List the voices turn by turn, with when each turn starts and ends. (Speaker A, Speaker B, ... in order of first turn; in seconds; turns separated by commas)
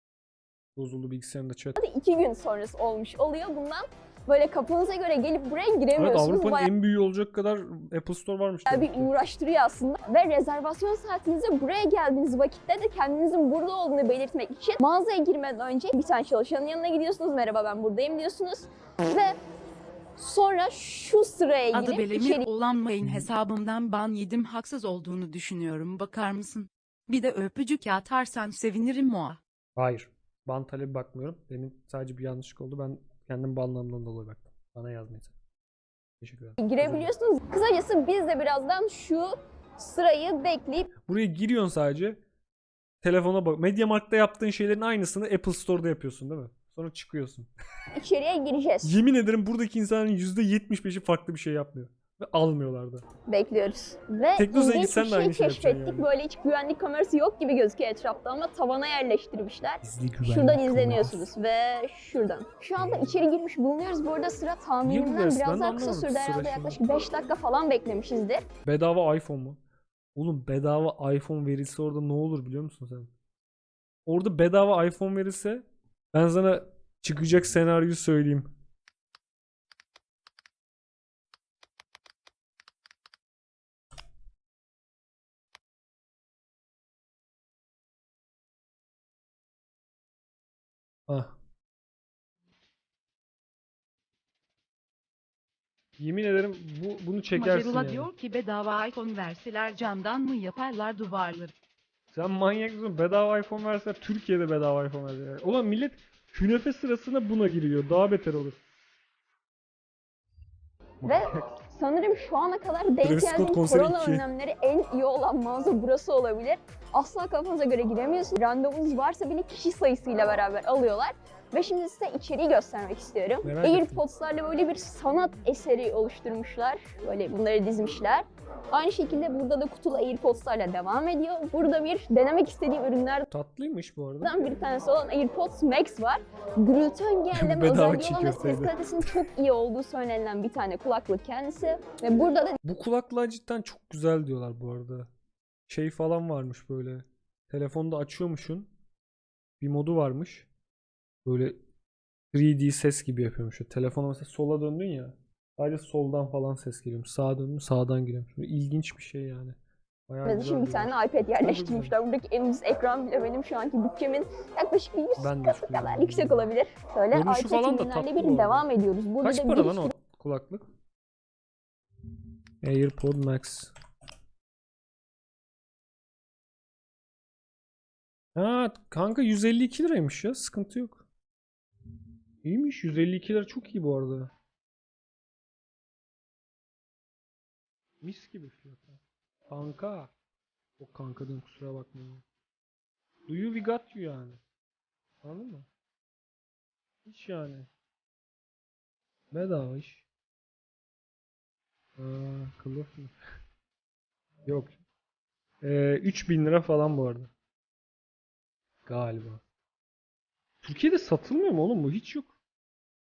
Speaker A: 0.8-1.8, Speaker B: 1.8-6.7, Speaker A: 5.9-9.1, Speaker B: 8.7-19.3, Speaker B: 20.2-22.4, Speaker C: 21.7-29.4, Speaker A: 23.0-23.3, Speaker A: 29.8-35.3, Speaker A: 36.2-37.1, Speaker B: 36.6-40.9, Speaker A: 41.0-42.2, Speaker A: 43.0-47.5, Speaker B: 47.9-49.0, Speaker A: 48.8-53.0, Speaker B: 53.3-68.4, Speaker A: 54.4-56.1, Speaker A: 59.8-61.3, Speaker A: 62.8-63.2, Speaker A: 64.8-66.8, Speaker A: 68.6-69.6, Speaker A: 70.2-73.1, Speaker A: 74.1-78.5, Speaker A: 91.1-91.3, Speaker A: 96.0-98.1, Speaker C: 97.3-101.5, Speaker A: 102.1-108.6, Speaker A: 111.0-111.5, Speaker B: 111.0-133.3, Speaker A: 113.0-114.2, Speaker A: 123.4-124.1, Speaker A: 133.3-134.3, Speaker B: 134.2-142.6, Speaker A: 137.3-139.2, Speaker A: 142.6-145.1, Speaker A: 145.7-148.7, Speaker A: 149.6-150.5, Speaker A: 151.2-151.6, Speaker A: 152.3-159.6, Speaker A: 160.1-162.0, Speaker B: 160.2-169.9, Speaker A: 165.2-166.5, Speaker A: 167.1-168.7, Speaker A: 169.2-170.6, Speaker A: 172.6-173.7, Speaker A: 178.3-181.0, Speaker A: 182.4-184.3, Speaker A: 188.0-190.1, Speaker A: 190.8-192.2, Speaker A: 193.3-194.4, Speaker A: 195.2-195.7, Speaker A: 197.1-197.7, Speaker A: 199.3-200.0, Speaker A: 202.0-203.1, Speaker A: 204.4-204.8, Speaker A: 205.6-207.3, Speaker A: 208.9-209.4, Speaker A: 210.6-212.3